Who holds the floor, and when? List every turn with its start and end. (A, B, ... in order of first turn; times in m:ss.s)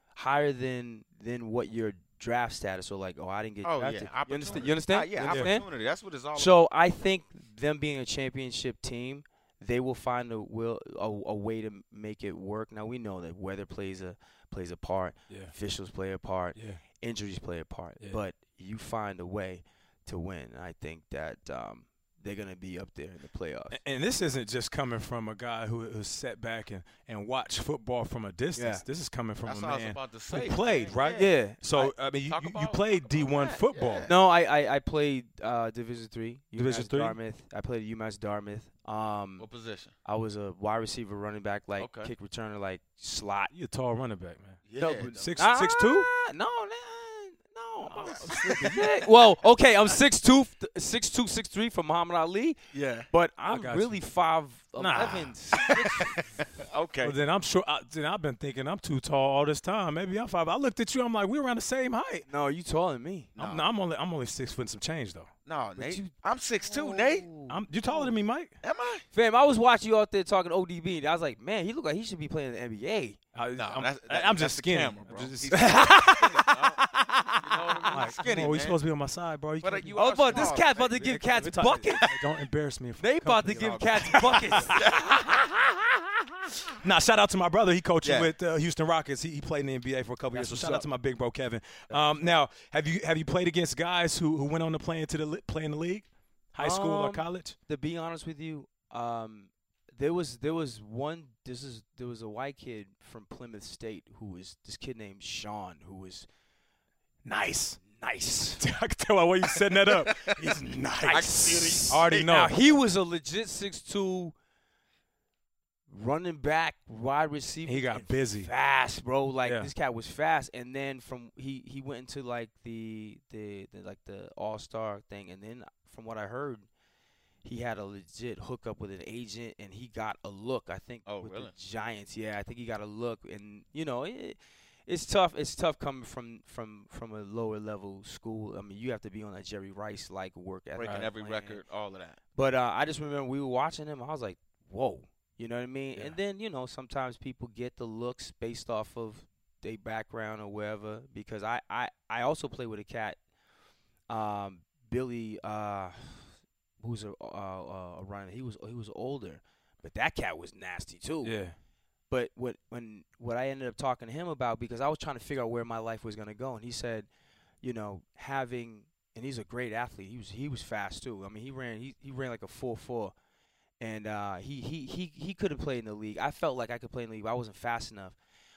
0:00.2-0:05.6 A
0:03.6-0:06.6 B
0:05.3-0:05.6 C
0:06.4-0:23.8 A
0:15.3-0:15.5 C
0:16.6-0:16.8 C
0:23.7-0:34.1 C
0:28.6-0:28.8 A
0:29.4-0:31.3 B
0:31.1-0:31.9 A
0:32.3-0:34.2 B
0:34.0-0:39.4 A
0:36.6-0:37.2 C
0:39.4-0:39.9 B
0:40.0-0:43.5 A
0:41.8-0:42.1 B
0:43.5-0:46.1 C
0:44.7-0:45.3 B
0:44.8-0:52.6 A
0:47.9-0:48.9 C
0:47.9-0:49.0 B
0:52.7-0:53.1 B
0:53.1-0:56.4 A
0:53.5-0:54.0 C
0:54.8-0:55.3 C
0:54.9-0:57.2 B
0:57.0-1:02.2 C
1:02.3-1:03.3 A
1:03.4-1:05.3 C
1:03.4-1:03.6 B
1:05.5-1:07.3 B
1:05.8-1:08.1 A
1:07.5-1:08.5 C
1:08.6-1:09.0 B
1:09.1-1:13.2 A
1:13.4-1:25.3 C
1:13.6-1:16.8 B
1:15.5-1:16.5 A
1:17.4-1:18.8 B
1:17.8-1:18.5 A
1:19.6-1:21.3 B
1:19.9-1:22.2 A
1:21.8-1:22.2 B
1:23.0-1:25.0 A
1:23.5-1:25.5 B
1:26.7-1:37.6 C
1:28.0-1:28.3 B
1:30.3-1:30.9 A
1:36.6-1:46.3 A
1:47.2-1:47.8 C
1:47.8-1:48.6 A
1:48.6-1:52.5 C
1:49.8-1:52.2 B
1:51.1-1:54.4 A
1:55.9-2:06.7 A
1:57.7-1:58.5 C
1:59.4-1:59.7 C
2:07.4-2:21.6 A
2:11.0-2:11.5 B
2:20.8-2:22.2 B
2:22.4-2:33.2 A
2:34.1-2:36.3 A
2:36.8-2:41.4 A
2:41.2-2:41.6 C
2:42.1-2:47.1 A
2:47.6-2:53.1 A
2:53.8-2:58.2 A